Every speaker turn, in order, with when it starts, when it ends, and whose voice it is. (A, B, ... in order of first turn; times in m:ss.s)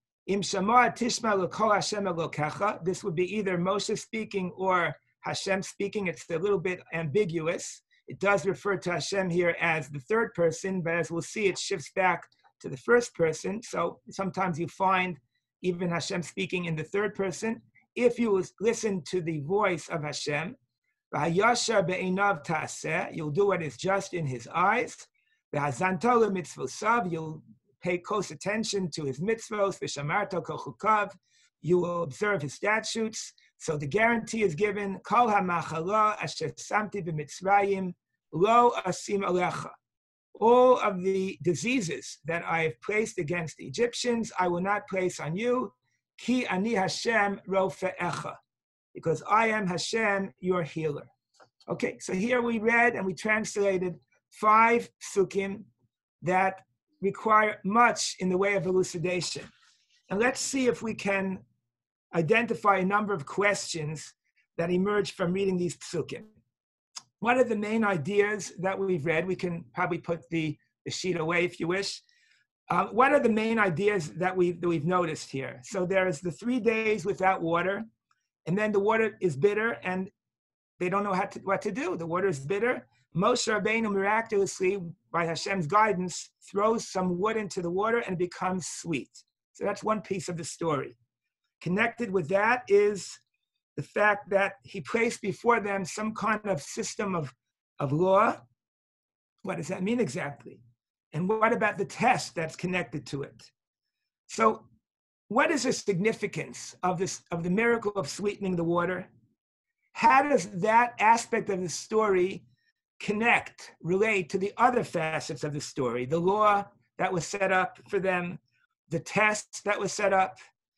0:00.3-0:20.6 A
0:21.1-0:39.7 A
0:40.4-0:48.4 A
0:48.9-0:51.1 A
0:51.7-0:55.7 A
0:56.2-0:59.5 A
1:00.1-1:01.4 A
1:02.1-1:06.3 A
1:07.2-1:12.0 A
1:12.7-1:17.9 A
1:18.4-1:20.1 A
1:20.8-1:31.0 A
1:31.6-1:33.2 A
1:33.8-1:38.4 A
1:39.4-1:40.6 A
1:41.1-1:43.5 A
1:44.3-1:44.7 A
1:45.3-1:49.1 A
1:49.9-1:52.4 A
1:53.0-2:00.4 A